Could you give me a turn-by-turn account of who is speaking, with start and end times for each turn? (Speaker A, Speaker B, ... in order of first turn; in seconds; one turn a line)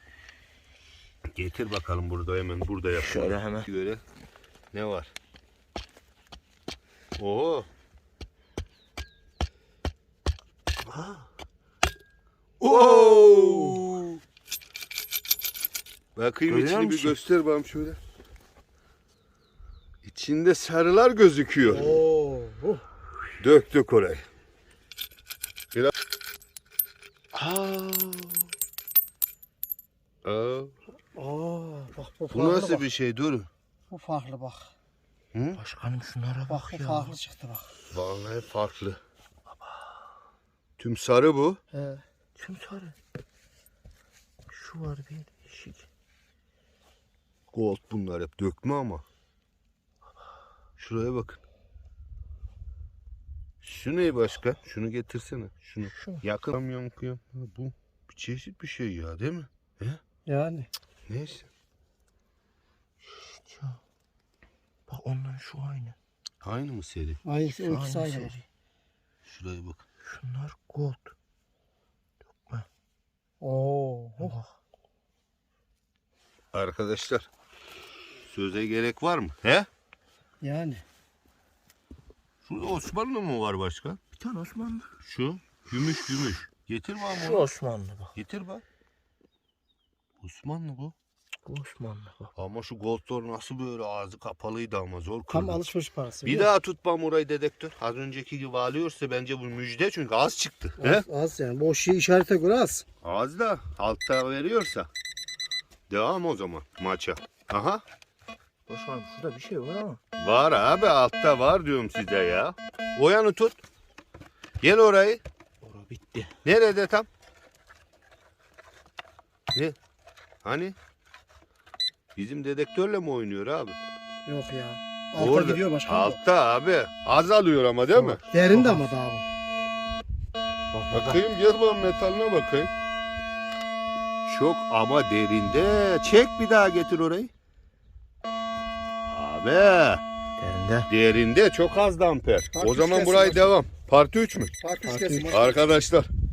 Speaker A: 1.4-4.0
Speaker B: 3.0-3.7
Speaker A: 4.7-5.1
Speaker A: 7.2-7.7
Speaker A: 10.9-11.3
Speaker A: 12.6-14.2
Speaker C: 12.7-13.6
Speaker A: 16.2-18.0
Speaker B: 16.5-17.2
Speaker A: 20.0-22.0
Speaker C: 21.7-22.8
Speaker A: 23.4-24.2
Speaker A: 27.4-28.3
Speaker A: 30.2-30.7
Speaker C: 31.1-32.9
Speaker A: 32.3-33.5
Speaker C: 33.9-34.7
Speaker A: 35.3-35.6
Speaker B: 35.6-37.2
Speaker C: 36.5-37.7
Speaker A: 37.9-39.0
Speaker A: 40.8-41.6
Speaker C: 41.7-42.0
Speaker B: 42.4-43.0
Speaker B: 44.5-45.9
Speaker A: 47.5-49.0
Speaker A: 50.8-51.4
Speaker A: 53.6-60.0
Speaker B: 55.9-56.2
Speaker C: 60.3-60.7
Speaker A: 61.1-61.5
Speaker B: 63.2-63.8
Speaker B: 64.9-66.0
Speaker A: 66.4-67.2
Speaker C: 67.2-68.4
Speaker B: 67.5-68.4
Speaker A: 69.2-69.8
Speaker B: 70.1-71.1
Speaker C: 73.4-74.3
Speaker B: 74.2-74.5
Speaker A: 76.5-77.3
Speaker A: 78.3-79.7
Speaker C: 80.4-80.8
Speaker A: 82.4-84.0
Speaker B: 84.2-85.0
Speaker A: 85.0-87.5
Speaker B: 87.1-88.1
Speaker A: 88.1-88.6
Speaker A: 90.2-91.0
Speaker B: 91.5-92.3
Speaker A: 92.3-95.7
Speaker C: 95.3-96.5
Speaker A: 96.2-101.0
Speaker C: 100.8-102.8
Speaker A: 103.0-104.9
Speaker A: 105.9-107.8
Speaker B: 108.7-110.0
Speaker A: 110.2-113.6
Speaker A: 114.6-115.2
Speaker B: 115.6-116.3
Speaker A: 116.4-117.1
Speaker A: 120.4-120.8
Speaker A: 122.2-123.8
Speaker C: 124.3-126.2
Speaker A: 125.2-128.2
Speaker B: 127.9-128.9
Speaker C: 128.3-129.3
Speaker B: 130.7-131.2
Speaker A: 130.9-132.7
Speaker A: 134.2-137.3
Speaker A: 139.1-140.0
Speaker B: 140.4-140.9
Speaker A: 140.9-144.5
Speaker C: 142.6-143.6
Speaker C: 144.6-145.6
Speaker B: 144.8-145.4
Speaker A: 145.3-146.1